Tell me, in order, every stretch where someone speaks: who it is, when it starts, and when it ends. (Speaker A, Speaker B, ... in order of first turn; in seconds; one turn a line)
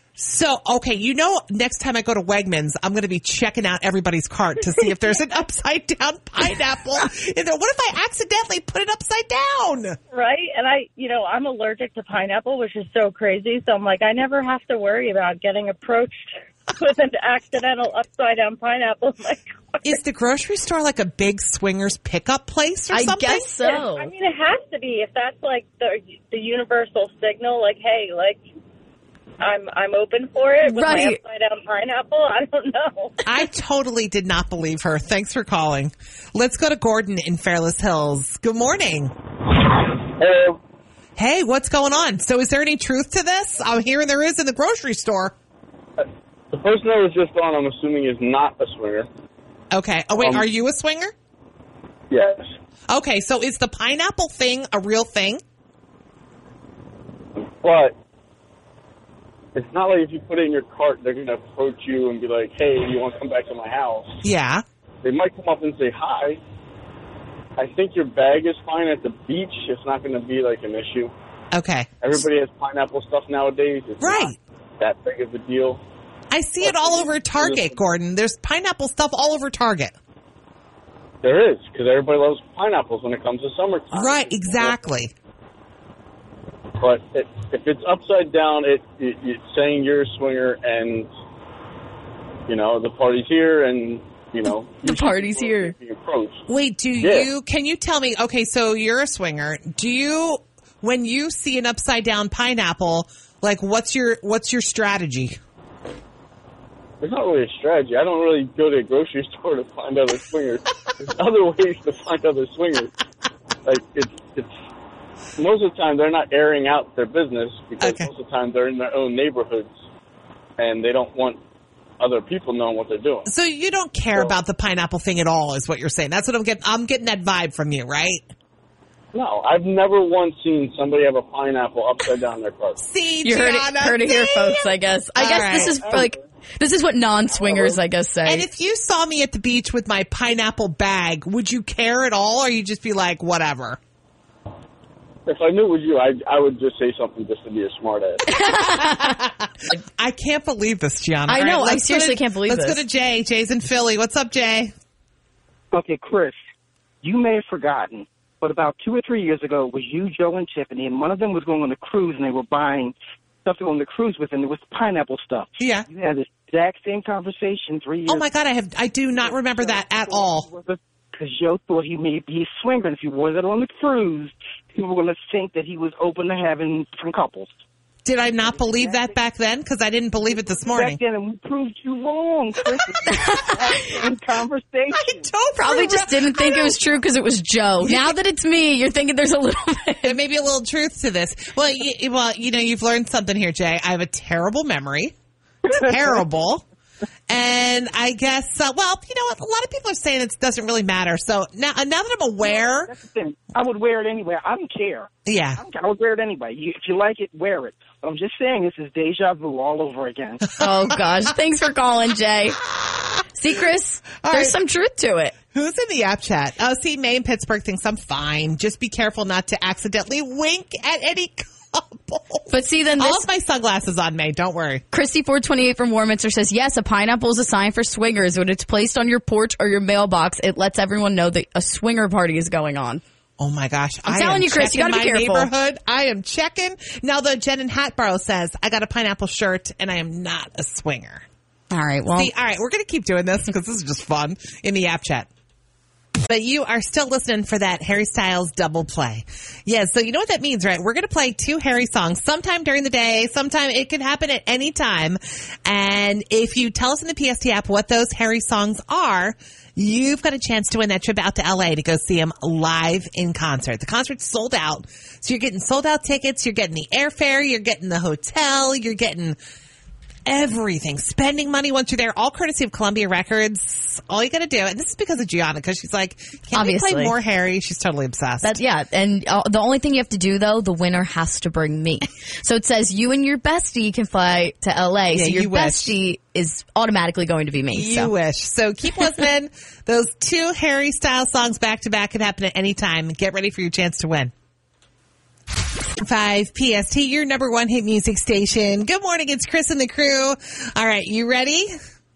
Speaker A: 0.2-10.0
Speaker B: 10.1-20.0
Speaker A: 19.8-23.6
Speaker C: 22.9-24.1
Speaker B: 23.6-28.4
Speaker B: 29.4-33.2
Speaker C: 30.6-31.2
Speaker A: 33.2-39.1
Speaker D: 40.1-40.6
Speaker A: 41.2-45.4
Speaker D: 46.0-49.1
Speaker A: 49.7-51.1
Speaker D: 50.2-50.4
Speaker D: 52.1-52.5
Speaker A: 52.9-55.4
Speaker D: 57.6-57.9
Speaker D: 59.5-64.2
Speaker A: 64.2-64.6
Speaker D: 65.0-66.4
Speaker D: 67.6-71.1
Speaker A: 71.5-71.9
Speaker D: 72.0-75.8
Speaker A: 74.0-74.4
Speaker A: 76.3-80.0
Speaker D: 76.6-77.8
Speaker D: 81.2-84.8
Speaker A: 83.9-85.1
Speaker D: 86.8-91.1
Speaker D: 92.5-96.4
Speaker C: 94.8-95.7
Speaker A: 96.5-105.4
Speaker D: 97.0-97.3
Speaker D: 107.0-112.9
Speaker D: 113.6-114.5
Speaker D: 115.4-119.7
Speaker A: 117.8-118.1
Speaker D: 120.6-121.4
Speaker D: 122.0-123.3
Speaker A: 123.3-128.3
Speaker D: 129.1-132.8
Speaker A: 132.8-135.9
Speaker C: 133.2-138.4
Speaker D: 135.9-136.1
Speaker D: 137.4-137.7
Speaker A: 138.2-143.8
Speaker D: 145.2-148.3
Speaker C: 148.2-149.2
Speaker A: 148.3-154.7
Speaker C: 151.3-152.8
Speaker E: 155.7-156.4
Speaker E: 157.0-168.3
Speaker A: 165.6-165.8
Speaker A: 168.1-170.5
Speaker E: 169.2-177.5
Speaker A: 178.0-181.0
Speaker E: 178.4-179.1
Speaker E: 180.6-185.3
Speaker C: 183.4-183.9
Speaker A: 184.9-186.8
Speaker C: 185.6-190.2
Speaker A: 187.8-188.2
Speaker A: 190.0-195.1
Speaker A: 195.7-196.7
Speaker A: 197.3-202.9
Speaker E: 202.4-210.5
Speaker A: 205.2-205.6
Speaker C: 210.6-212.6
Speaker A: 210.6-211.0
Speaker A: 212.8-213.2
Speaker C: 213.3-215.3
Speaker A: 214.2-214.6
Speaker A: 215.5-224.8
Speaker C: 222.5-223.2
Speaker C: 224.9-233.0
Speaker A: 233.4-241.2
Speaker C: 234.1-235.5
Speaker C: 241.7-242.3
Speaker A: 242.2-245.3
Speaker A: 246.2-269.4
Speaker A: 270.2-278.6
Speaker C: 276.5-277.1
Speaker C: 278.4-288.1
Speaker A: 285.1-285.9
Speaker A: 287.7-294.3
Speaker A: 296.0-301.8